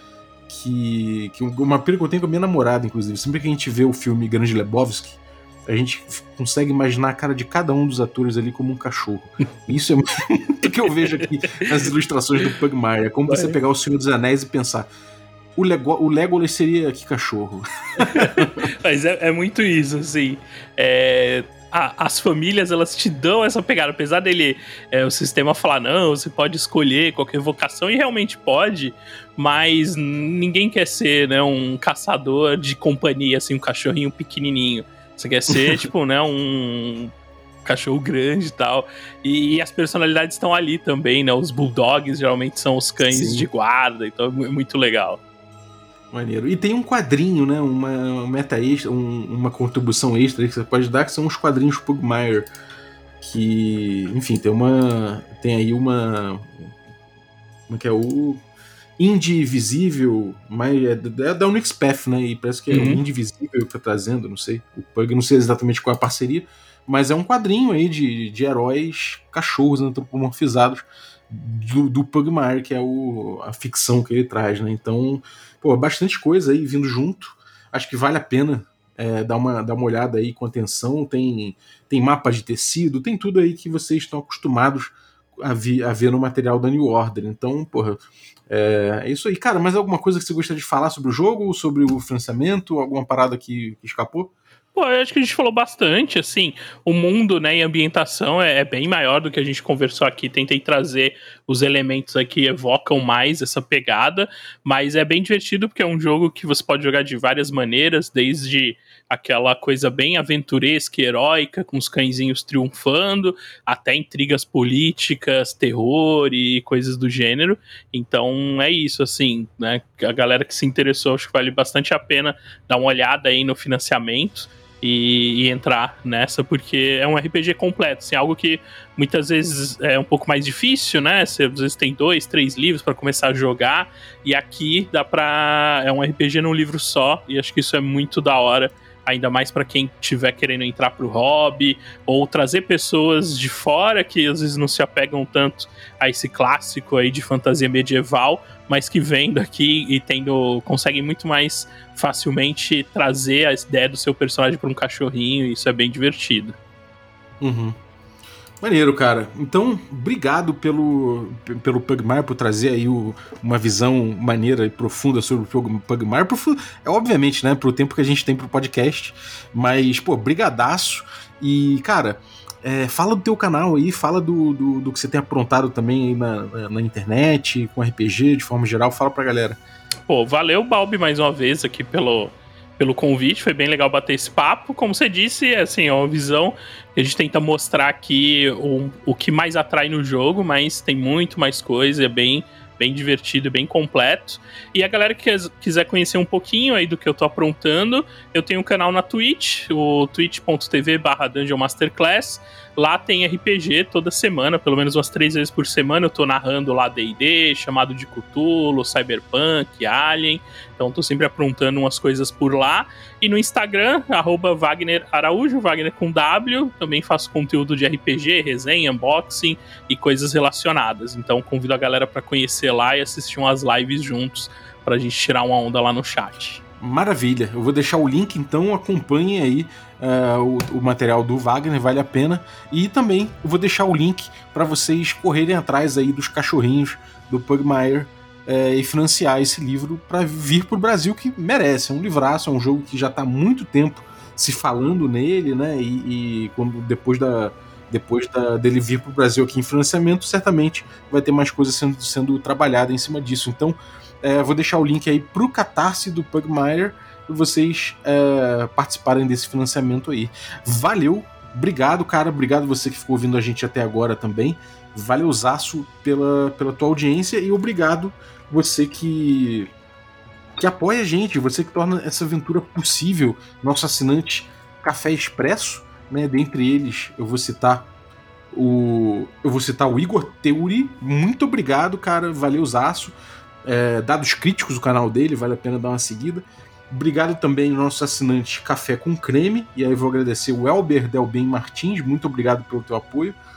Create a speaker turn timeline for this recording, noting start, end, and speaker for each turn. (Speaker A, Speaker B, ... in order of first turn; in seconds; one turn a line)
Speaker A: 0.5-14.9
Speaker B: 13.3-13.6
Speaker A: 15.6-18.7
Speaker B: 18.0-37.1
Speaker A: 35.5-35.9
Speaker B: 37.6-45.2
Speaker A: 43.1-43.5
Speaker A: 46.1-52.5
Speaker A: 53.2-56.8
Speaker A: 57.7-58.4
Speaker A: 59.0-94.3
Speaker B: 62.7-63.0
Speaker B: 94.7-156.6
Speaker A: 157.4-157.8
Speaker A: 158.6-179.6
Speaker B: 180.1-226.6
Speaker A: 226.8-269.7
Speaker A: 270.6-277.9
Speaker A: 278.5-293.4